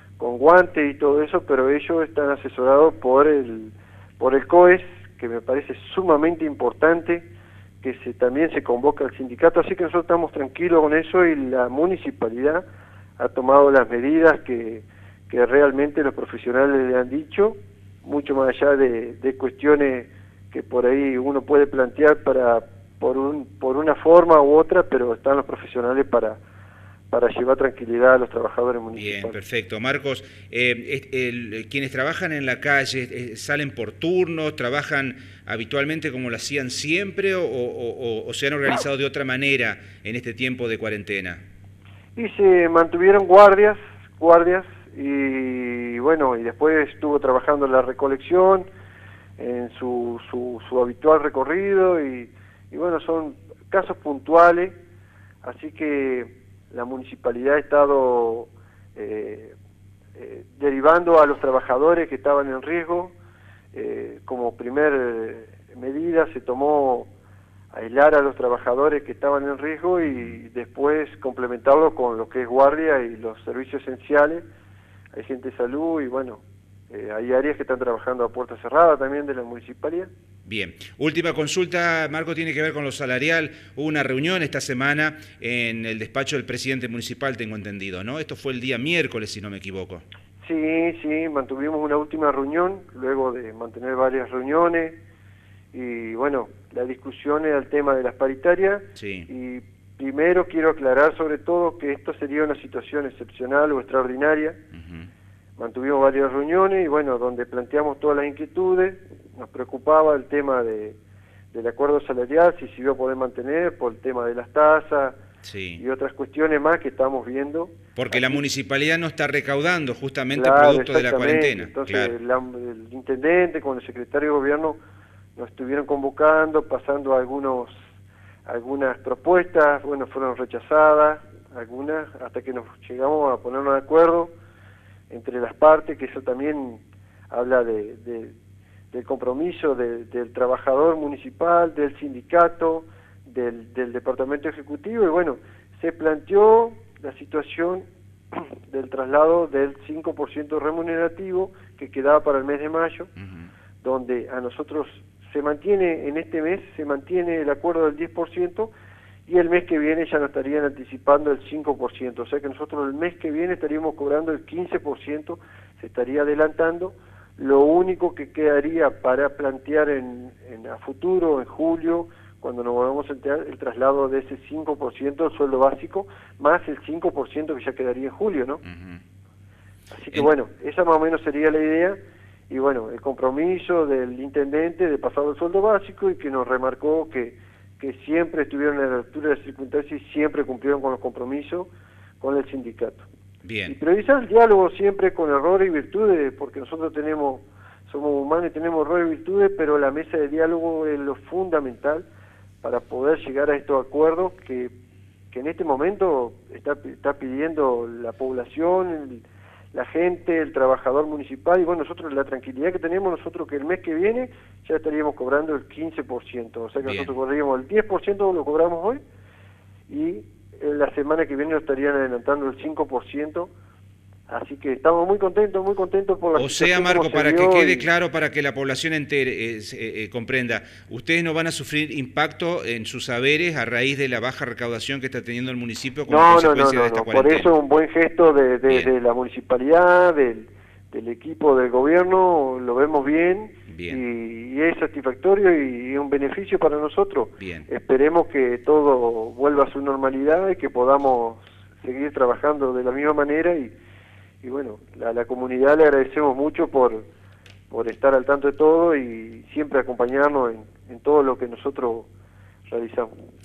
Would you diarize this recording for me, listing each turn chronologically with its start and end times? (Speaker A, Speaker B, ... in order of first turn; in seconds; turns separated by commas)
Speaker A: 0.2-7.3, Speaker A: 7.8-12.6, Speaker A: 13.2-26.4, Speaker A: 27.1-29.4, Speaker B: 28.9-41.4, Speaker A: 42.2-48.7, Speaker A: 49.4-54.8, Speaker A: 55.4-59.5, Speaker A: 60.2-63.1, Speaker A: 63.7-67.1, Speaker A: 67.7-74.4, Speaker B: 70.0-70.4, Speaker A: 75.1-80.1, Speaker B: 80.5-90.0, Speaker A: 90.4-95.0, Speaker A: 95.7-104.6, Speaker B: 99.0-99.3, Speaker B: 104.7-105.1, Speaker A: 105.6-111.0, Speaker A: 111.5-115.2, Speaker B: 115.5-115.8, Speaker A: 115.8-118.4, Speaker B: 118.0-122.1, Speaker A: 120.3-124.8, Speaker A: 125.3-127.8, Speaker A: 128.5-134.3, Speaker A: 135.1-138.3, Speaker A: 138.9-153.1, Speaker A: 153.8-158.7, Speaker A: 159.3-178.6, Speaker B: 178.7-179.0, Speaker A: 179.9-182.0, Speaker A: 182.5-191.7, Speaker A: 192.2-193.1, Speaker B: 193.4-193.8, Speaker A: 193.7-202.1, Speaker A: 202.6-204.7, Speaker A: 205.3-219.0, Speaker B: 216.8-217.1, Speaker A: 219.9-223.5, Speaker A: 224.3-227.9, Speaker B: 226.3-237.5, Speaker A: 236.1-253.7, Speaker B: 243.7-244.0, Speaker B: 247.4-247.7, Speaker A: 254.4-257.0, Speaker A: 257.7-262.1, Speaker A: 262.7-263.1